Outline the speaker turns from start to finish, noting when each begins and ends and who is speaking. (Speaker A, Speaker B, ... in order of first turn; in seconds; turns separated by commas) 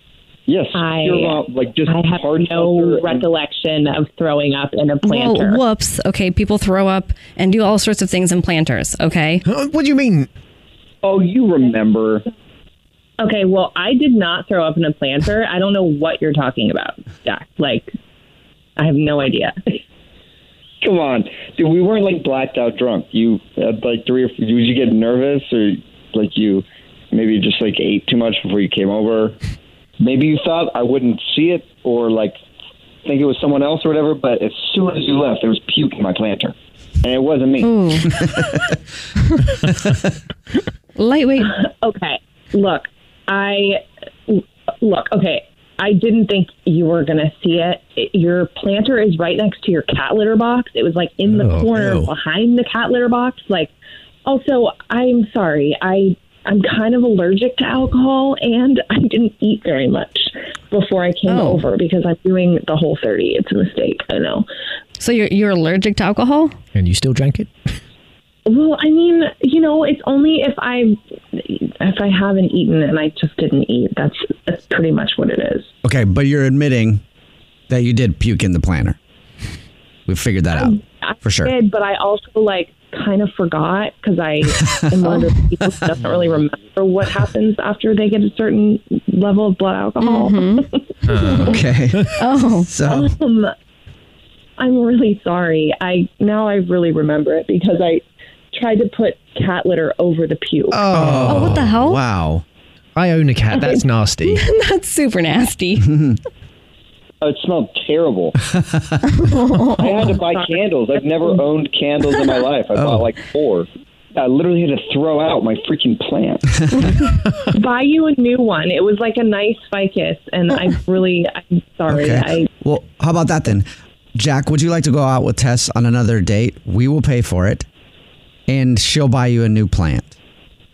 Speaker A: 0.5-3.3, Speaker B: 0.8-5.6, Speaker C: 5.0-9.4, Speaker D: 9.5-10.3, Speaker A: 11.0-12.2, Speaker B: 13.2-17.9, Speaker B: 18.8-19.6, Speaker A: 20.8-29.4, Speaker A: 30.0-32.4, Speaker A: 33.0-37.7, Speaker C: 37.6-38.1, Speaker C: 41.0-41.5, Speaker B: 41.4-53.7, Speaker D: 51.3-52.1, Speaker B: 54.3-64.5, Speaker C: 61.3-61.6, Speaker C: 65.0-66.5, Speaker D: 66.7-67.5, Speaker B: 68.5-75.7, Speaker E: 75.8-77.0, Speaker E: 77.7-79.0, Speaker E: 80.1-81.5, Speaker B: 80.5-90.8, Speaker E: 84.7-85.0, Speaker C: 90.0-90.7, Speaker D: 91.1-92.1, Speaker C: 91.3-91.6, Speaker E: 91.4-92.1, Speaker C: 92.2-92.7, Speaker E: 92.7-93.1, Speaker B: 92.8-93.5, Speaker B: 94.6-100.8, Speaker D: 100.7-101.7, Speaker E: 100.9-102.4, Speaker C: 101.2-102.0, Speaker D: 103.0-104.5, Speaker B: 103.6-103.8, Speaker C: 104.3-105.9, Speaker E: 105.8-106.2, Speaker A: 107.2-108.4, Speaker E: 108.5-109.0, Speaker C: 109.1-110.2, Speaker A: 109.8-116.5, Speaker E: 112.8-113.1, Speaker B: 117.5-122.5, Speaker E: 121.9-127.7, Speaker E: 128.5-130.1